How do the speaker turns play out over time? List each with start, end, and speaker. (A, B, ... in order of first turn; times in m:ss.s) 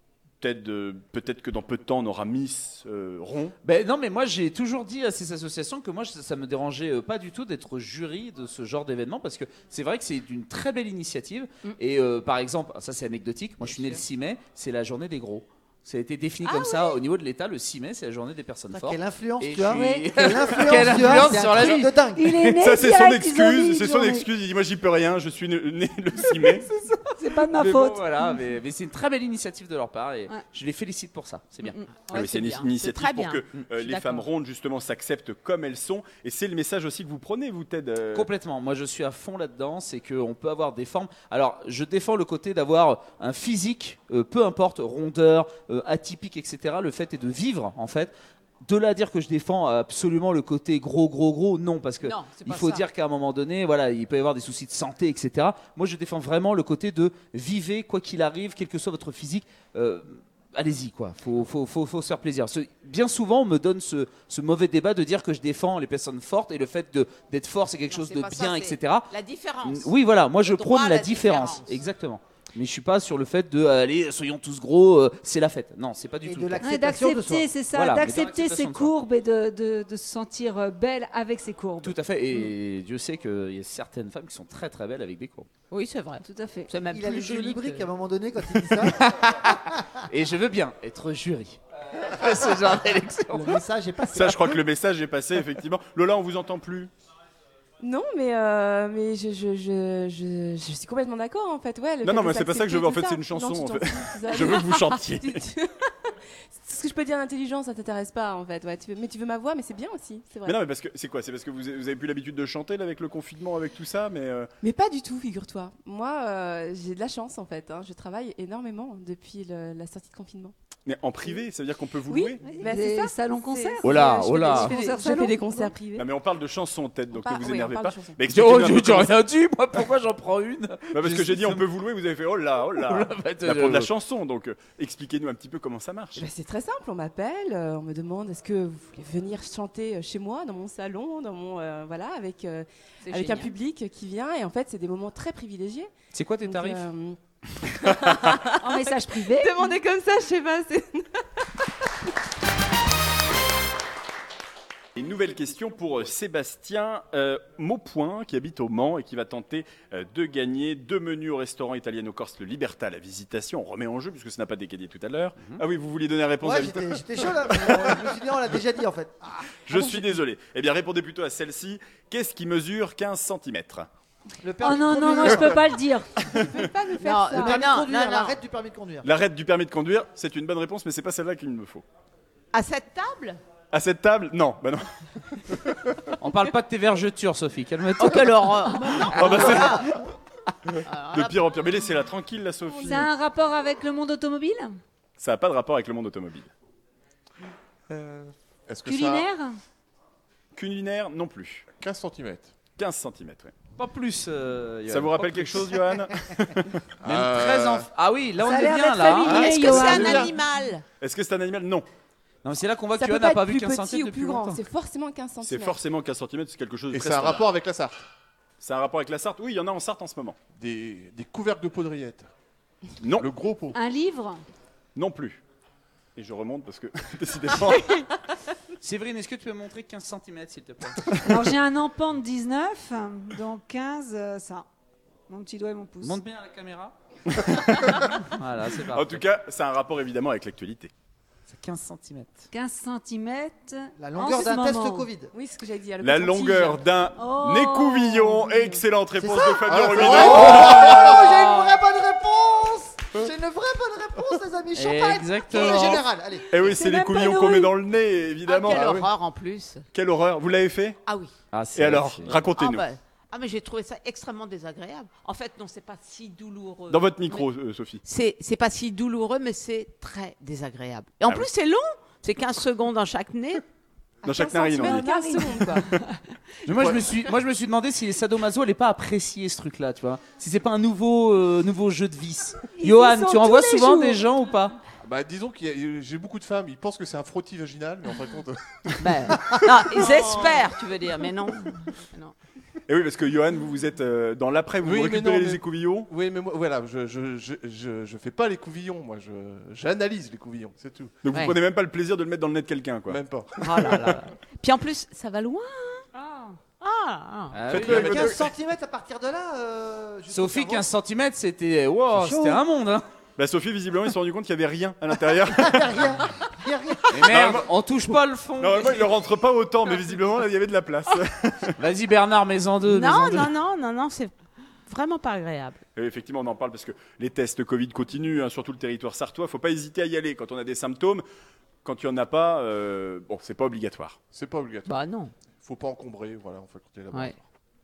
0:00.4-0:03.6 A
0:03.6-0:22.6 B
0:16.4-0:17.0 C
0:18.7-0:22.5 D
0:19.7-0:24.3 E
0:22.6-0:26.7 A
0:26.4-0:28.5 E
0:27.4-0:31.8 B
0:31.8-0:34.2 C
0:32.1-0:38.3 A
0:38.1-0:48.1 B
0:48.6-1:09.1 B
0:52.0-0:52.9 C
1:07.9-1:11.8 C
1:09.6-1:16.6 B
1:16.2-1:17.5 D
1:16.6-1:22.0 E
1:17.7-1:18.9 B
1:21.8-1:25.5 B
1:25.7-1:27.9 C
1:26.2-1:26.7 E
1:26.9-1:29.1 D
1:28.8-1:33.6 B
1:33.3-1:34.6 D
1:34.1-1:36.9 A
1:37.8-1:45.9 F
1:42.0-1:45.4 A
1:46.5-1:50.6 F
1:50.4-1:54.5 A
1:54.6-2:00.5 F
2:00.9-2:02.4 A
2:02.1-2:06.1 F
2:02.4-2:05.8 E
2:03.8-2:04.8 B
2:06.0-2:09.1 A
2:07.1-2:08.2 F
2:08.3-2:11.7 B
2:10.9-2:16.2 A
2:12.7-2:13.9 B
2:16.2-2:25.9 F
2:23.0-2:23.5 C
2:26.1-2:26.9 B
2:26.4-2:31.2 F
2:28.6-2:29.8 E
2:35.0-2:48.0 A
2:46.4-2:50.0 D
2:49.7-2:53.9 A
2:54.4-2:55.7 D
2:54.6-2:56.1 E
2:56.3-2:56.6 A
2:56.6-2:57.4 F
2:57.0-2:58.4 C
2:57.1-2:57.6 E
2:57.2-2:59.1 D
2:59.0-3:01.8 A
3:02.5-3:03.4 C
3:03.7-3:06.1 A
3:06.2-3:09.9 B
3:08.0-3:09.9 C
3:09.1-3:09.9 A
3:10.7-3:13.1 A
3:10.8-3:11.4 C
3:12.8-3:14.8 E
3:15.2-3:16.5 A
3:17.9-3:18.3 B
3:18.7-3:19.3 G
3:18.8-3:19.6 E
3:20.6-3:21.7 A
3:21.8-3:22.5 G
3:22.8-3:23.5 A
3:23.8-3:26.0 B
3:24.9-3:26.8 A
3:27.0-3:27.9 G
3:27.0-3:30.2 B
3:28.4-3:30.3 E
3:29.3-3:30.8 C
3:31.0-3:31.9 A
3:32.4-3:34.7 B
3:33.0-3:35.8 F
3:35.4-3:37.4 A
3:36.9-3:38.0 G
3:38.6-3:40.4 A
3:40.6-3:42.3 G
3:43.0-3:43.3 A
3:43.1-3:43.8 G
3:43.7-3:44.4 E
3:45.0-3:45.4 A
3:46.2-3:48.1 A
3:48.8-3:51.2 B
3:51.2-3:54.6 E
3:55.3-3:56.2 E
3:56.0-3:57.0 B
3:57.3-3:58.2 A
3:58.2-3:59.2 B
3:58.9-4:00.9 A
4:01.5-4:02.5 B
4:02.5-4:05.1 E
4:04.0-4:05.3 D
4:05.3-4:06.8 F
4:06.0-4:11.1 A
4:07.2-4:08.7 E
4:09.2-4:16.6 D
4:09.6-4:11.4 G
4:14.8-4:16.0 B
4:15.6-4:16.0 C
4:16.5-4:19.1 A
4:16.6-4:17.7 E
4:18.5-4:19.8 C
4:19.9-4:21.0 A
4:21.1-4:21.3 C
4:21.5-4:22.4 B
4:21.8-4:22.9 A
4:22.6-4:27.5 C
4:26.9-4:28.0 A
4:28.0-4:33.6 C
4:34.2-4:35.9 F
4:34.2-4:35.1 A
4:34.8-4:36.4 E
4:36.7-4:44.8 B
4:36.7-4:37.0 G
4:42.8-4:44.3 E
4:45.0-4:50.5 G
4:49.0-4:52.3 C
4:52.9-4:56.1 A
4:54.8-5:01.2 G
5:01.2-5:03.2 A
5:01.3-5:01.6 C
5:03.1-5:04.2 G
5:03.6-5:06.0 C
5:06.2-5:06.6 E
5:06.8-5:07.6 C
5:07.5-5:08.4 B
5:07.7-5:08.5 A
5:07.7-5:10.9 D
5:10.3-5:13.1 B
5:12.1-5:12.6 D
5:13.4-5:16.2 A
5:15.5-5:17.2 D
5:17.1-5:19.1 B
5:17.3-5:17.7 A
5:18.6-5:21.8 A
5:21.8-5:23.5 B
5:22.9-5:24.3 C
5:24.9-5:25.8 C
5:26.0-5:31.2 A
5:31.8-5:34.2 A
5:34.3-5:35.0 G
5:34.9-5:35.3 C
5:35.5-5:37.4 G